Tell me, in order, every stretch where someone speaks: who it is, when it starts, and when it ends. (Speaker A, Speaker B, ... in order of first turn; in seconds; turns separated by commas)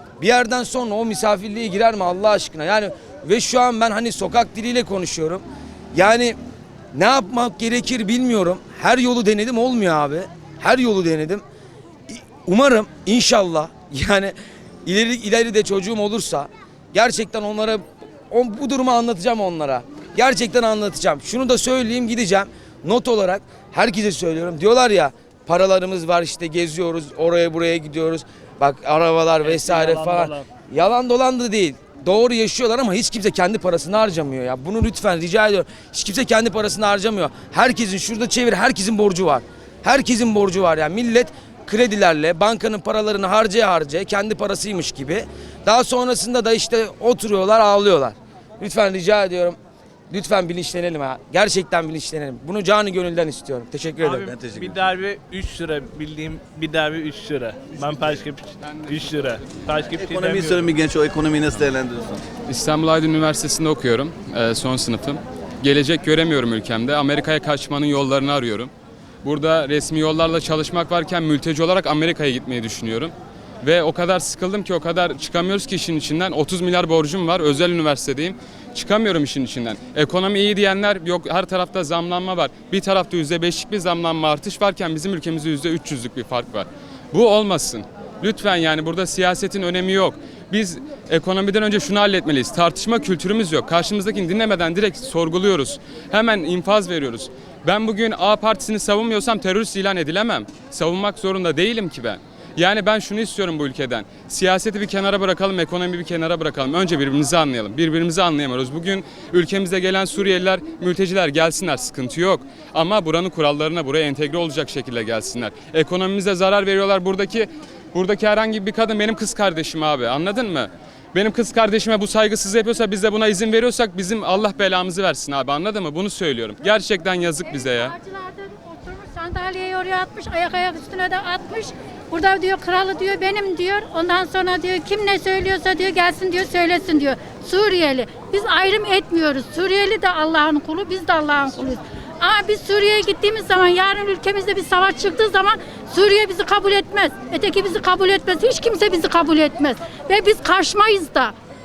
Speaker A: 0.2-6.3, Speaker A: 6.9-11.4, Speaker A: 12.1-14.3, Speaker A: 14.8-49.6, Speaker B: 29.4-30.4, Speaker A: 50.1-54.3, Speaker B: 54.0-60.7, Speaker C: 54.1-54.9, Speaker C: 60.0-62.2, Speaker D: 62.5-68.7, Speaker D: 69.2-127.9, Speaker E: 127.5-151.3